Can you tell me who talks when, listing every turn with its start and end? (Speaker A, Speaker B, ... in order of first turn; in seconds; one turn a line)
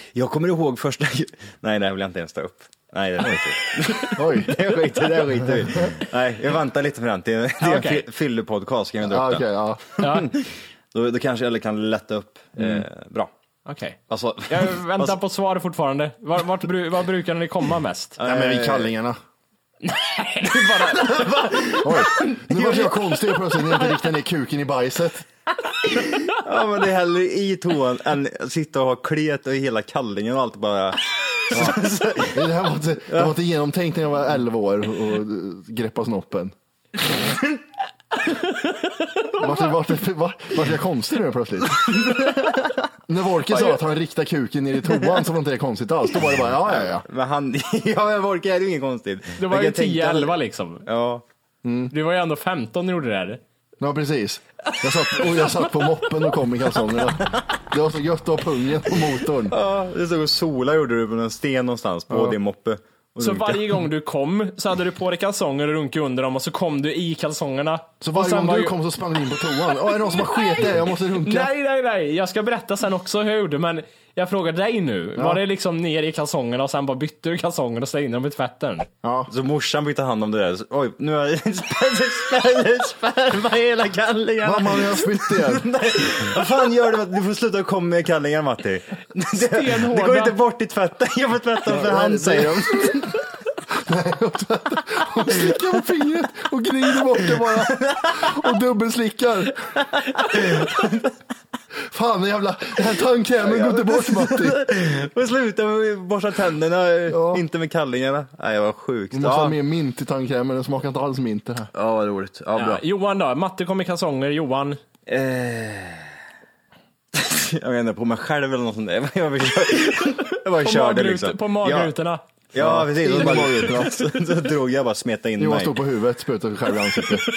Speaker A: 0.1-13.3
Speaker B: 4.1-4.6
Speaker C: 7.6-8.0
Speaker B: 9.1-9.8
Speaker C: 10.0-10.3
Speaker B: 12.6-12.8
Speaker C: 13.7-18.2
Speaker A: 14.1-15.2
Speaker A: 18.2-18.9
Speaker B: 18.2-19.2
Speaker C: 19.8-22.4
Speaker A: 21.0-23.2
Speaker B: 21.8-25.3
Speaker A: 25.9-32.5
Speaker B: 31.5-31.8
Speaker B: 32.3-36.5
Speaker B: 39.4-42.0
Speaker A: 41.9-42.8
Speaker B: 43.1-47.0
Speaker A: 46.7-50.3
Speaker C: 49.4-50.9
Speaker A: 50.9-51.2
Speaker B: 51.6-51.9
Speaker C: 51.9-53.4
Speaker B: 53.8-59.5
Speaker C: 55.2-55.6
Speaker A: 57.2-57.4
Speaker A: 59.5-63.8
Speaker B: 62.1-62.4
Speaker C: 63.2-68.8
Speaker B: 68.0-71.5
Speaker C: 70.2-78.9
Speaker B: 79.0-79.3
Speaker A: 79.3-93.3
Speaker B: 84.4-85.7
Speaker C: 89.3-90.4
Speaker B: 91.7-99.8
Speaker A: 97.2-98.5
Speaker A: 99.7-101.1
Speaker B: 101.9-104.6
Speaker A: 103.4-109.5
Speaker B: 107.1-107.4
Speaker B: 109.1-111.7
Speaker A: 111.7-112.8
Speaker C: 112.5-114.8
Speaker A: 115.0-116.1
Speaker A: 117.1-121.9
Speaker C: 120.5-122.2
Speaker A: 122.5-125.8
Speaker B: 122.6-124.1
Speaker B: 125.4-127.2